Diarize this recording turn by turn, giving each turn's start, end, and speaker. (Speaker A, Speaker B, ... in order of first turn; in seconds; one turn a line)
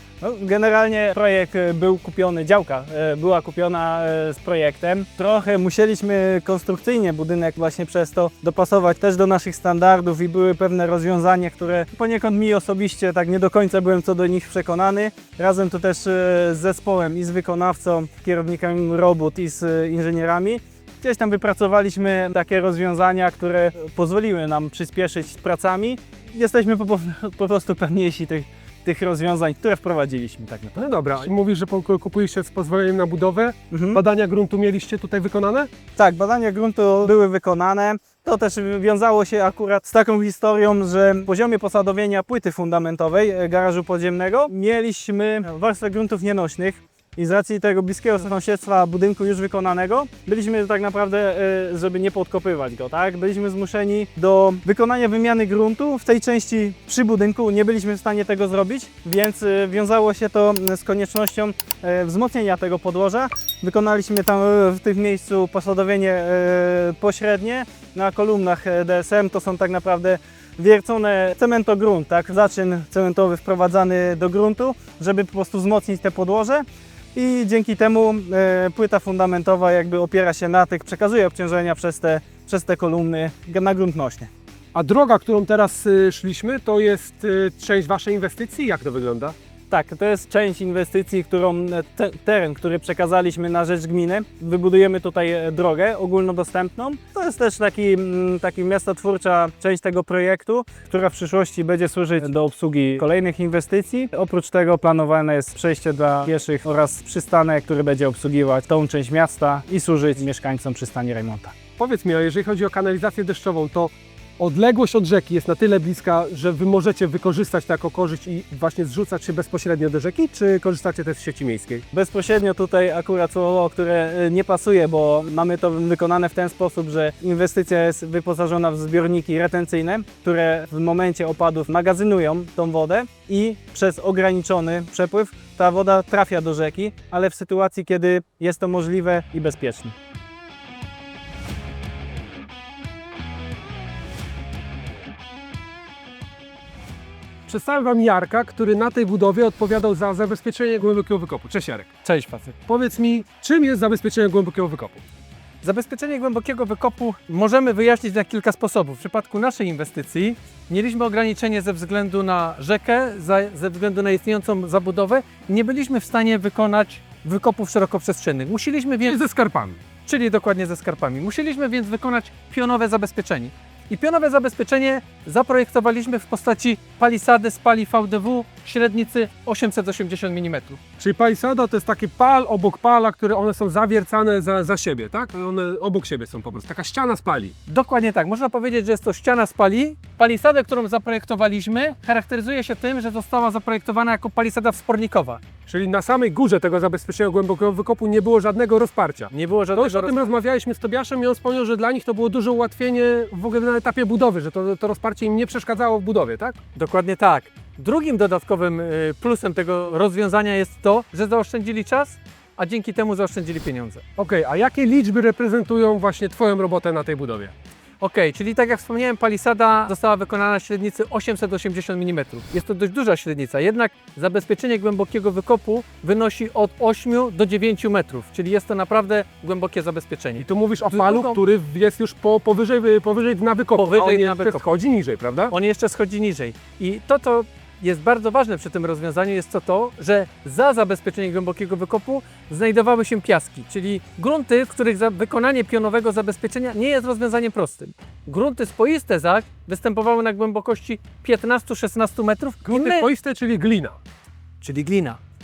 Speaker A: 0.2-30.8
Speaker B: 30.8-35.7
Speaker A: 33.7-34.0
Speaker A: 36.0-84.3
Speaker B: 84.7-89.3
Speaker A: 89.7-111.5
Speaker B: 111.8-121.8
Speaker A: 121.9-139.9
Speaker B: 147.5-151.9
Speaker C: 152.1-152.6
Speaker B: 152.7-155.0
Speaker C: 155.6-169.2
Speaker B: 169.1-169.8
Speaker C: 170.1-180.8
Speaker B: 181.0-187.5
Speaker C: 187.7-195.4
Speaker B: 195.7-206.6
Speaker C: 199.3-200.2
Speaker C: 206.8-214.0
Speaker B: 214.2-217.5
Speaker C: 218.0-231.4
Speaker B: 230.4-235.5
Speaker C: 233.8-234.6
Speaker C: 235.5-253.1
Speaker B: 252.7-254.0
Speaker C: 254.6-255.2